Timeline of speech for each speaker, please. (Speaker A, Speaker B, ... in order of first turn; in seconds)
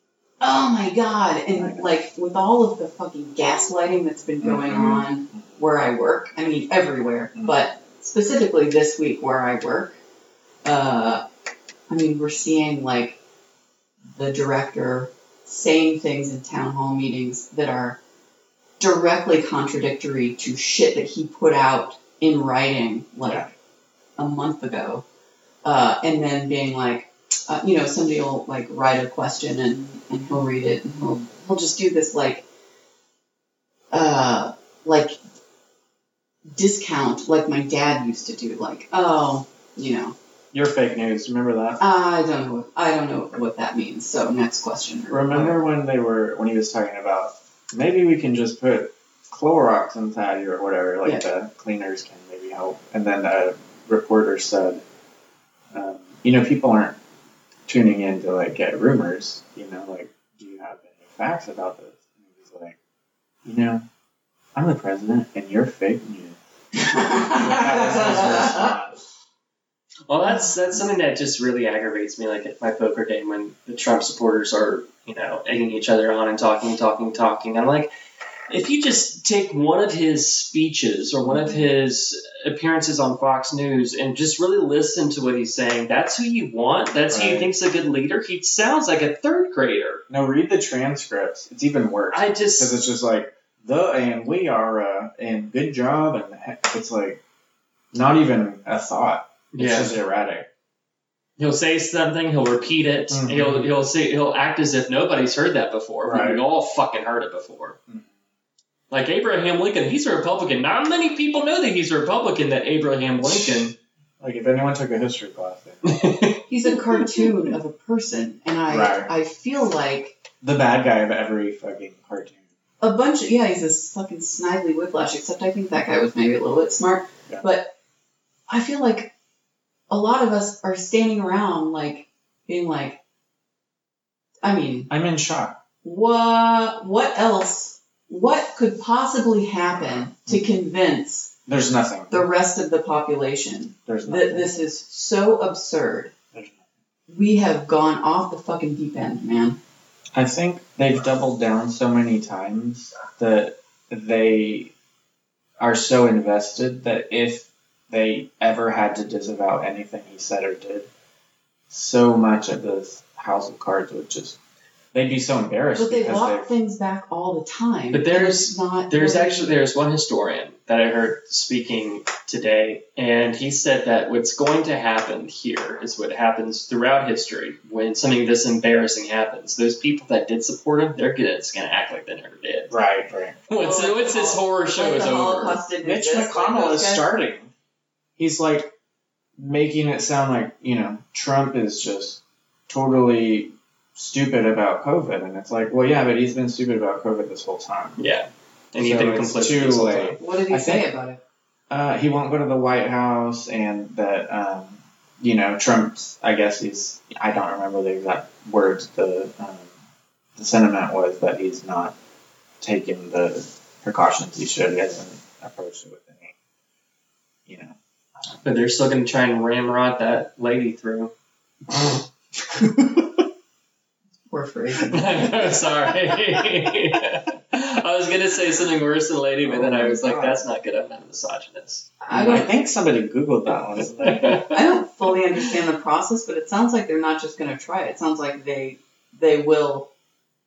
Speaker A: 0.4-10.0, 10.6-11.2, 11.9-13.2, 14.1-18.0, 18.8-23.4, 24.2-25.0, 25.6-32.4, 33.9-35.2, 36.5-40.1, 41.8-45.6, 66.8-68.7, 116.5-120.2, 122.8-127.7, 128.5-129.1, 129.9-133.0, 134.4-134.9, 135.8-141.3, 142.1-146.1, 147.1-149.6, 165.8-169.5, 183.6-187.1, 200.2-201.2, 224.3-225.6, 232.0-232.4, 234.5-239.9
Speaker B: 1.6-1.9, 4.4-5.5, 7.3-7.6, 23.2-23.5, 40.5-41.8, 45.1-54.8, 55.7-57.0, 57.7-62.8, 63.4-63.8, 64.5-66.4, 67.0-69.0, 87.1-87.5, 90.1-97.2, 97.9-100.5, 103.1-103.7, 106.0-106.4, 113.2-116.0, 118.7-119.1, 120.4-122.4, 134.9-135.6, 139.7-140.5, 141.5-142.2, 143.8-144.5, 146.3-146.6, 150.1-154.7, 155.6-160.9, 161.7-164.4, 164.9-166.5, 182.7-183.5, 185.8-187.5, 188.2-188.7, 189.4-198.0, 198.8-200.9, 201.7-209.7, 210.3-211.9, 212.6-216.3, 217.4-217.8, 221.7-222.0, 222.5-223.1, 229.4-230.4, 232.1-234.4
Speaker C: 70.1-77.9, 78.5-90.0, 92.1-92.7, 99.5-100.0, 101.4-107.8, 108.9-113.7, 115.8-116.4, 167.9-182.7, 183.5-185.6, 198.0-200.2, 218.4-221.1, 224.9-232.4, 234.0-234.6